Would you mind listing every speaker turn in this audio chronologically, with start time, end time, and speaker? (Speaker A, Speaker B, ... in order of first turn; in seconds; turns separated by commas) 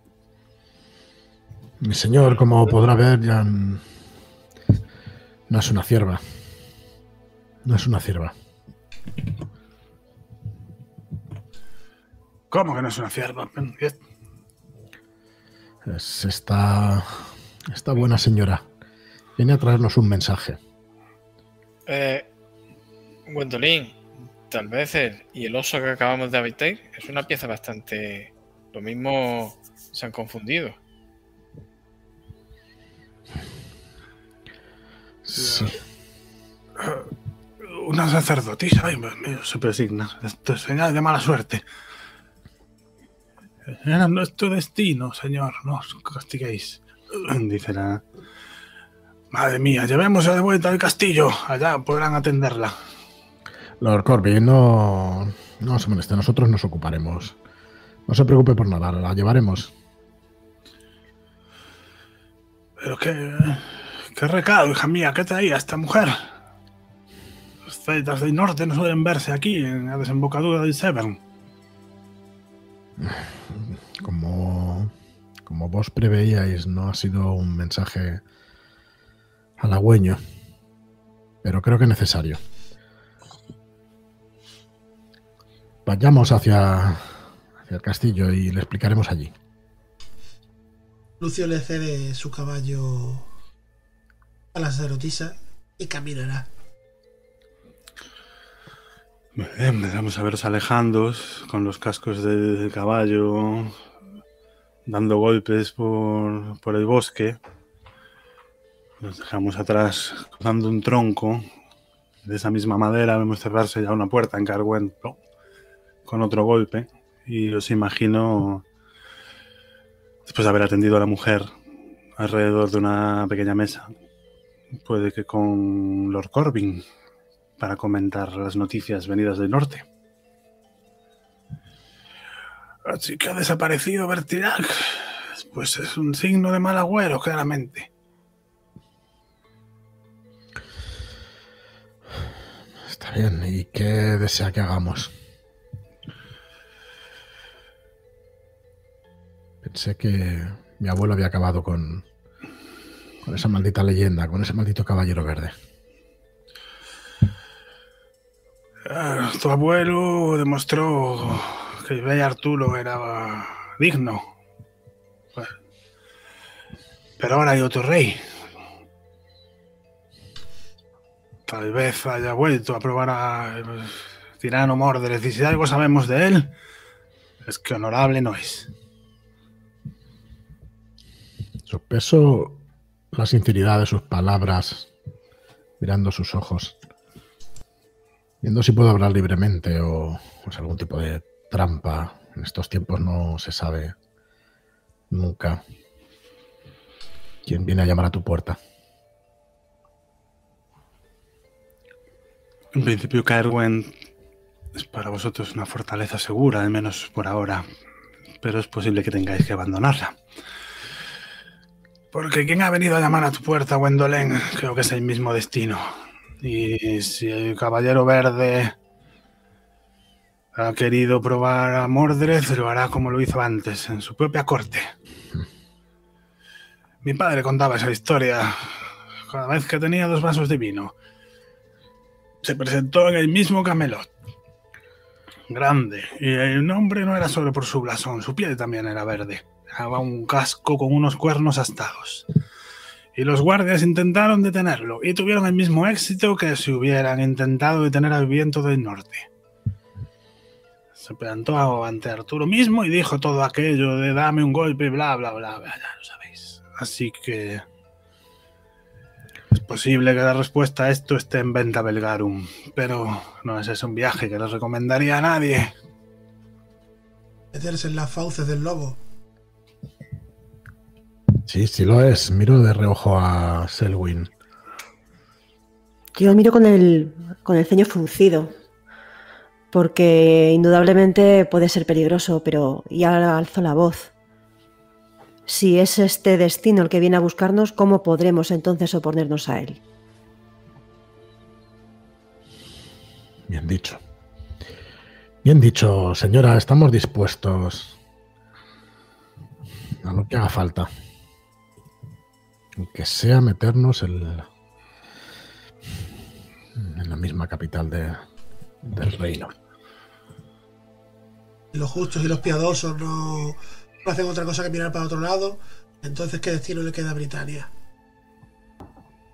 Speaker A: 1.8-3.9, Speaker A: 5.5-6.2, Speaker A: 7.6-8.3, Speaker B: 12.5-14.0, Speaker A: 15.8-18.6, Speaker A: 19.4-20.6, Speaker C: 21.9-22.2, Speaker C: 23.3-23.9, Speaker C: 24.5-30.8, Speaker A: 35.2-35.8, Speaker B: 35.4-35.7, Speaker B: 36.8-37.1, Speaker B: 37.6-41.6, Speaker B: 43.7-48.0, Speaker B: 49.3-52.7, Speaker A: 53.8-57.4, Speaker A: 58.1-59.7, Speaker B: 62.8-66.3, Speaker B: 67.7-71.2, Speaker A: 73.0-74.9, Speaker A: 75.5-78.2, Speaker A: 79.6-80.2, Speaker A: 81.4-82.4, Speaker A: 85.8-89.3, Speaker D: 91.2-93.3, Speaker D: 94.5-96.5, Speaker B: 99.3-103.8, Speaker B: 104.8-107.4, Speaker B: 109.0-111.5, Speaker B: 112.2-115.2, Speaker B: 116.0-118.6, Speaker B: 120.2-121.5, Speaker B: 122.2-123.9, Speaker B: 124.8-126.8, Speaker B: 127.6-129.9, Speaker B: 132.8-137.9, Speaker A: 142.8-145.1, Speaker A: 149.6-152.0, Speaker A: 153.2-155.5, Speaker B: 158.9-164.3, Speaker B: 167.2-168.2, Speaker B: 171.5-176.5, Speaker B: 177.4-178.7, Speaker A: 181.7-182.6, Speaker A: 183.1-184.9, Speaker A: 185.8-186.8, Speaker A: 188.4-193.9, Speaker A: 195.1-195.6, Speaker A: 197.4-198.6, Speaker B: 202.7-203.9, Speaker B: 204.7-207.6, Speaker B: 208.4-210.2, Speaker B: 212.1-218.7, Speaker B: 220.5-224.9, Speaker B: 227.0-230.9, Speaker B: 232.4-234.1, Speaker B: 235.5-242.2, Speaker B: 243.1-249.3, Speaker B: 251.0-257.6, Speaker B: 259.5-265.7, Speaker D: 267.5-269.0, Speaker A: 271.4-274.3, Speaker E: 276.1-278.5, Speaker E: 279.7-284.1, Speaker E: 285.5-289.8, Speaker A: 293.5-294.0, Speaker A: 295.4-297.9, Speaker A: 300.0-300.9, Speaker A: 302.8-304.5, Speaker A: 306.7-308.2, Speaker A: 308.8-309.5, Speaker D: 311.7-317.7